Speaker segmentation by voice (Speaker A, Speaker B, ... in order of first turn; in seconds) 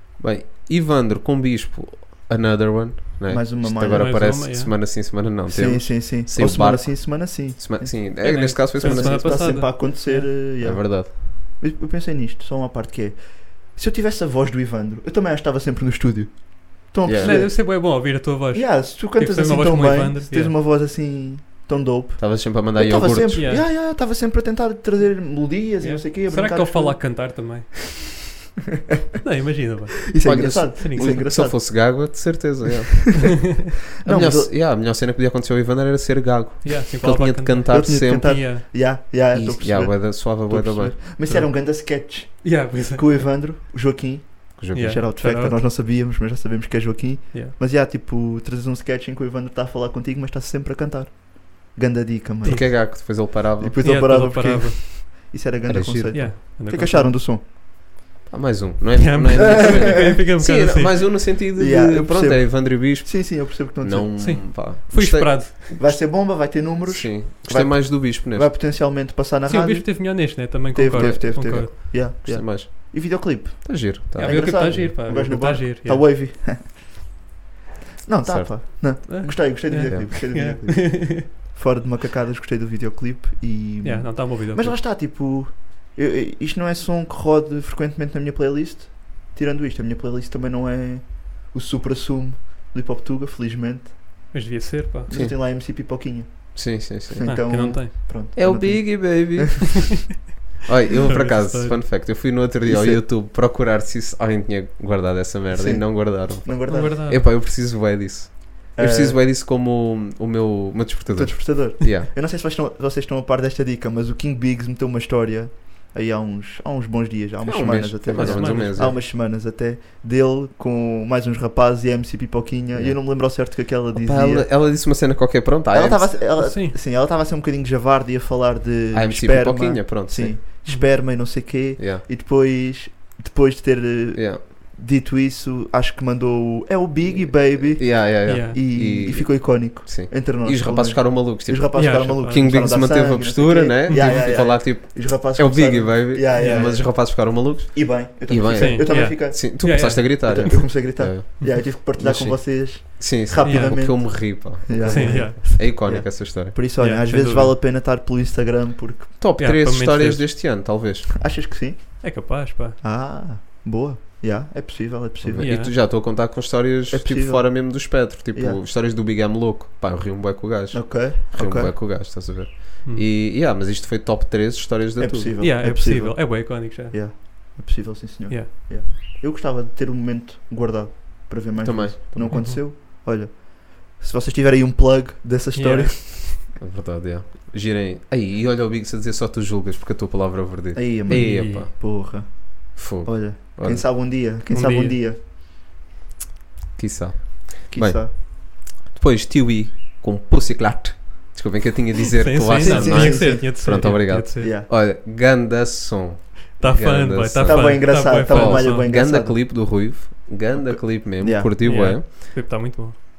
Speaker A: 0.2-9.7, 10.6-11.1, 17.0-17.5, 22.2-23.5, 30.2-33.5, 34.0-38.5, 39.3-41.0, 44.6-45.0, 52.4-53.8, 55.6-56.3, 58.3-66.1, 66.9-68.5, 71.0-73.1, 73.6-74.9, 78.2-79.0, 79.7-80.2, 95.1-95.4, 96.5-97.8, 98.3-100.1, 100.7-112.1, 117.4-119.0, 122.7-126.2, 128.9-130.4, 131.8-132.1, 134.1-134.4, 137.1-156.6, 159.2-161.1, 165.2-175.4, 181.6-182.5, 186.6-191.7, 192.8-193.9, 196.8-212.3
Speaker B: 3.3-4.4, 5.5-27.3, 30.1-32.2, 34.0-34.5, 37.7-57.4, 59.4-60.2, 61.6-64.3, 65.8-76.9, 78.0-94.3, 95.1-99.5, 102.7-103.0, 105.5-107.0, 108.8-109.2, 111.2-124.5, 125.7-159.1, 161.2-165.5, 166.9-168.6, 170.7-171.7, 175.0-186.4, 190.7-195.2, 197.7-198.1, 202.6-204.7, 207.4-210.0, 210.6-211.9
Speaker C: 3.9-4.7, 8.2-10.3, 17.2-20.5, 23.4-23.7, 25.8-27.8, 29.2-30.2, 30.8-31.1, 36.6-38.6, 41.2-41.8, 42.4-43.3, 44.7-45.6, 52.4-52.8, 53.8-55.3, 56.1-57.2, 59.0-60.9, 64.2-65.7, 69.5-71.7, 74.2-76.1, 79.1-81.3, 83.8-84.8, 94.3-95.1, 97.2-98.0, 101.1-101.8, 106.7-107.2, 118.1-119.0, 126.4-126.8, 138.2-138.6, 141.8-142.6, 143.9-144.4, 146.3-146.7, 148.6-150.7, 153.4-154.0, 154.9-155.7, 156.8-157.6, 159.4-160.3, 162.0-162.8, 165.4-165.7, 175.4-177.0, 182.3-182.6, 185.6-186.3, 191.1-191.7, 194.5-195.0, 202.2-204.5, 206.6-208.9, 211.6-213.0